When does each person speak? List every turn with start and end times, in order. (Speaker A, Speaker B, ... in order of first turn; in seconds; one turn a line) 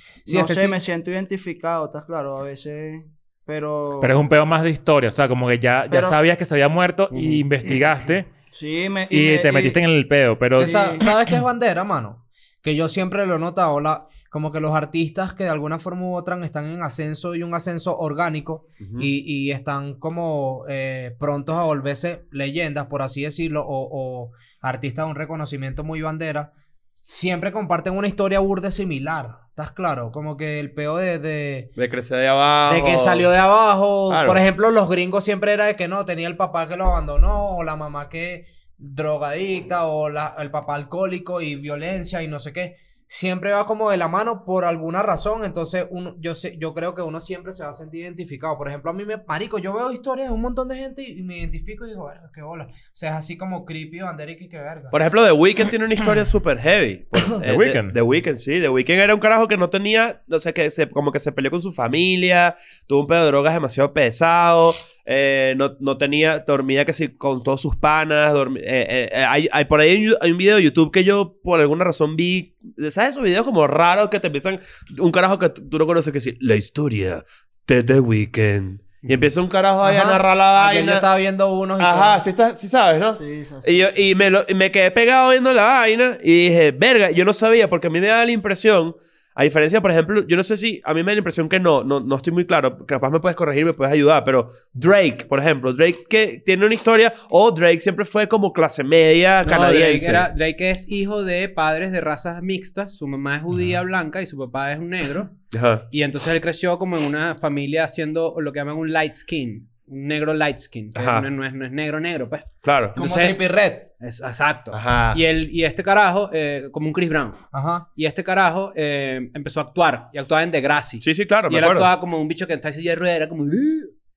Speaker A: 0.3-0.8
Speaker B: 0.3-4.2
Speaker C: 4.0-8.3
Speaker B: 5.9-6.2
Speaker D: 7.1-7.4
Speaker B: 8.5-9.8
Speaker C: 9.1-11.1
Speaker B: 10.5-11.1
Speaker A: 10.6-31.7
Speaker E: 18.8-19.1
Speaker E: 31.8-33.3
Speaker A: 32.7-54.9
Speaker E: 34.1-34.4
Speaker E: 54.9-81.0
Speaker C: 57.4-58.0
Speaker A: 79.8-82.2
Speaker E: 81.8-100.3
Speaker B: 83.1-84.0
Speaker D: 99.4-105.4
Speaker E: 105.5-105.8
Speaker D: 105.9-113.3
Speaker E: 111.0-111.3
Speaker E: 112.6-113.3
Speaker A: 113.0-113.9
Speaker D: 114.0-123.9
Speaker E: 114.7-115.2
Speaker A: 117.5-117.9
Speaker E: 121.0-121.9